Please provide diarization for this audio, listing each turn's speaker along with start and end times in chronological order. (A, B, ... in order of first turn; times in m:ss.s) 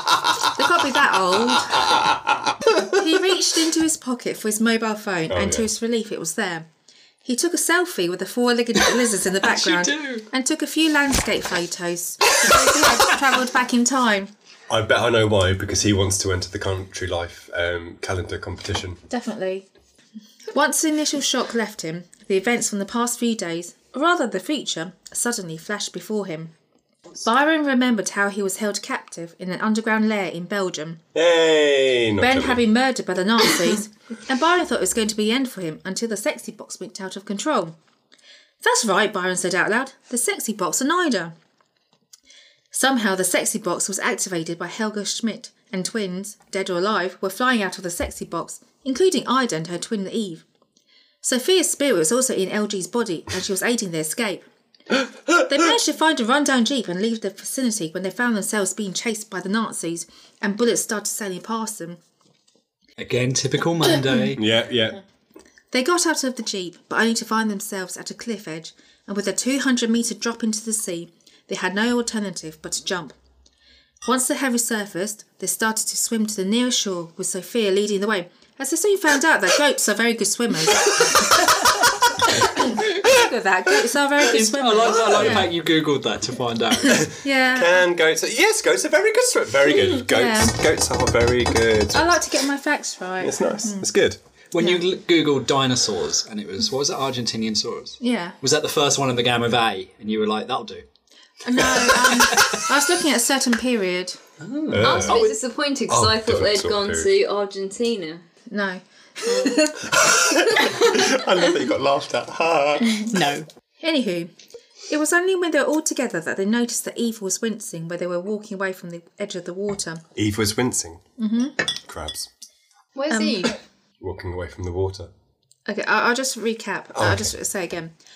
0:00.5-0:01.9 A
0:01.6-0:02.5 B
0:02.8-0:06.7 A
0:05.3-0:05.7 B
0:07.2-0:14.3 A
0:09.4-0:10.3 C
0:14.7-0:19.0 B
0:19.1-0:19.7 A
0:20.5-0:26.5 A
0:27.2-0:31.0 A
0:31.1-0:32.6 B
0:32.2-0:37.8 A
0:38.6-0:41.3 A
0:42.7-0:50.4 A
0:51.2-0:54.4 A
0:55.4-1:02.0 A
1:03.0-1:04.4 C
1:04.4-1:05.0 B
1:05.7-1:13.2 A
1:14.0-1:25.5 A
1:24.2-1:27.1 C
1:25.1-1:25.5 B
1:26.9-1:32.2 B
1:27.0-1:27.8 A
1:30.1-1:30.6 A
1:31.9-1:33.9 A
1:33.2-1:34.2 B
1:34.5-1:40.8 C
1:38.0-1:38.4 A
1:41.4-1:44.2 A
1:41.6-1:42.7 C
1:44.4-1:45.3 C
1:44.7-1:45.3 B
1:44.8-1:48.3 D
1:45.9-1:47.1 B
1:48.5-1:49.8 A
1:49.3-1:49.7 D
1:49.8-1:53.2 B
1:53.8-1:54.3 A
1:54.9-2:00.0 A
2:00.2-2:01.0 B
2:01.2-2:01.6 A
2:01.8-2:02.3 B
2:03.0-2:03.6 D
2:03.1-2:03.5 A
2:04.0-2:05.1 B
2:05.7-2:07.9 A
2:07.0-2:07.3 B